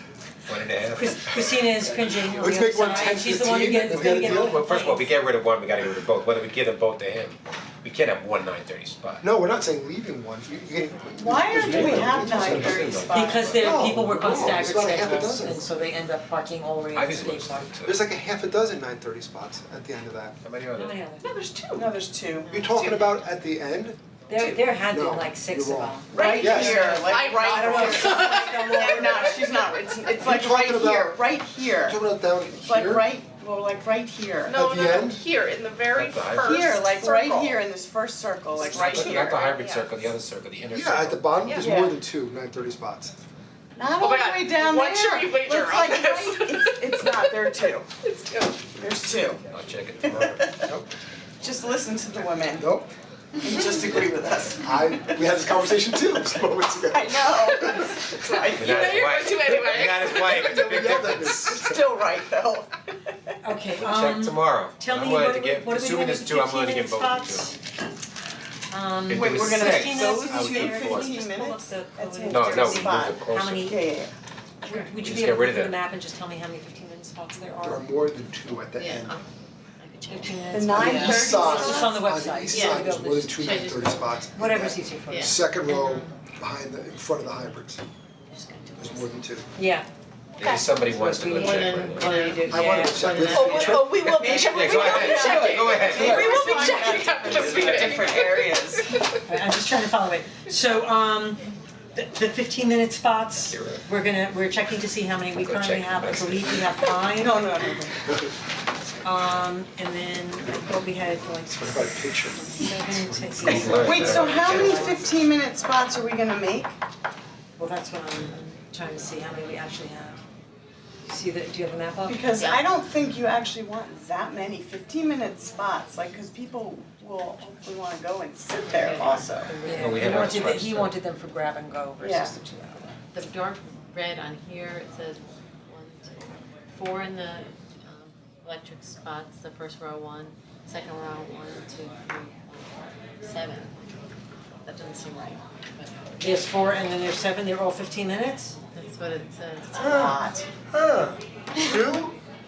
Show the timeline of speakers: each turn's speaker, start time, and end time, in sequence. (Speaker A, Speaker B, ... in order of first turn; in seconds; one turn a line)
Speaker A: 0.5-1.7
Speaker B: 0.9-5.1
Speaker C: 2.3-4.6
Speaker A: 4.1-9.3
Speaker C: 9.2-13.0
Speaker D: 11.2-13.9
Speaker A: 11.6-13.8
Speaker B: 13.1-17.7
Speaker C: 13.6-15.7
Speaker A: 16.9-18.0
Speaker C: 17.9-20.4
Speaker A: 20.4-21.0
Speaker B: 20.7-21.2
Speaker E: 21.2-22.0
Speaker D: 21.7-22.6
Speaker C: 22.5-26.9
Speaker E: 22.7-23.2
Speaker B: 24.3-29.5
Speaker D: 26.1-32.0
Speaker E: 26.1-30.1
Speaker C: 30.1-31.2
Speaker C: 31.8-33.1
Speaker D: 32.6-34.7
Speaker E: 34.4-37.6
Speaker C: 34.5-35.3
Speaker A: 35.9-36.9
Speaker D: 36.3-39.5
Speaker A: 38.5-41.6
Speaker E: 38.6-39.9
Speaker C: 40.7-43.1
Speaker D: 41.5-42.0
Speaker D: 43.7-47.9
Speaker E: 44.0-47.5
Speaker E: 48.0-48.6
Speaker D: 48.7-49.5
Speaker A: 49.5-50.7
Speaker D: 50.0-50.7
Speaker D: 51.4-52.7
Speaker C: 52.5-52.9
Speaker D: 53.4-55.0
Speaker C: 54.6-57.9
Speaker D: 56.9-59.5
Speaker E: 58.2-60.7
Speaker A: 58.5-61.7
Speaker C: 60.1-61.9
Speaker D: 61.5-63.3
Speaker B: 63.4-67.6
Speaker A: 63.8-67.6
Speaker B: 68.7-73.8
Speaker A: 69.1-71.2
Speaker D: 69.1-74.1
Speaker A: 72.3-73.7
Speaker B: 74.6-77.9
Speaker A: 74.9-75.8
Speaker C: 77.6-79.2
Speaker F: 78.7-81.1
Speaker B: 80.1-83.5
Speaker D: 80.5-82.0
Speaker C: 80.7-87.8
Speaker F: 82.5-84.2
Speaker B: 84.3-85.3
Speaker F: 85.1-86.2
Speaker F: 88.3-89.2
Speaker C: 88.8-89.5
Speaker B: 89.5-89.9
Speaker A: 90.4-92.1
Speaker B: 90.4-93.4
Speaker F: 91.3-93.8
Speaker C: 92.5-94.3
Speaker E: 93.3-99.1
Speaker D: 93.8-99.1
Speaker A: 93.9-96.5
Speaker B: 99.2-107.4
Speaker A: 103.5-103.8
Speaker A: 105.3-106.7
Speaker D: 107.1-108.0
Speaker B: 109.0-112.0
Speaker C: 111.5-114.2
Speaker B: 112.5-115.1
Speaker A: 113.4-115.1
Speaker D: 113.7-116.8
Speaker B: 117.6-120.2
Speaker B: 121.0-122.3
Speaker D: 122.0-129.5
Speaker F: 122.3-122.6
Speaker F: 128.6-130.2
Speaker B: 129.6-132.9
Speaker A: 129.7-130.9
Speaker D: 132.0-132.3
Speaker F: 133.1-143.9
Speaker F: 144.6-146.1
Speaker B: 146.2-148.6
Speaker F: 148.7-150.2
Speaker C: 149.8-152.2
Speaker D: 149.9-150.4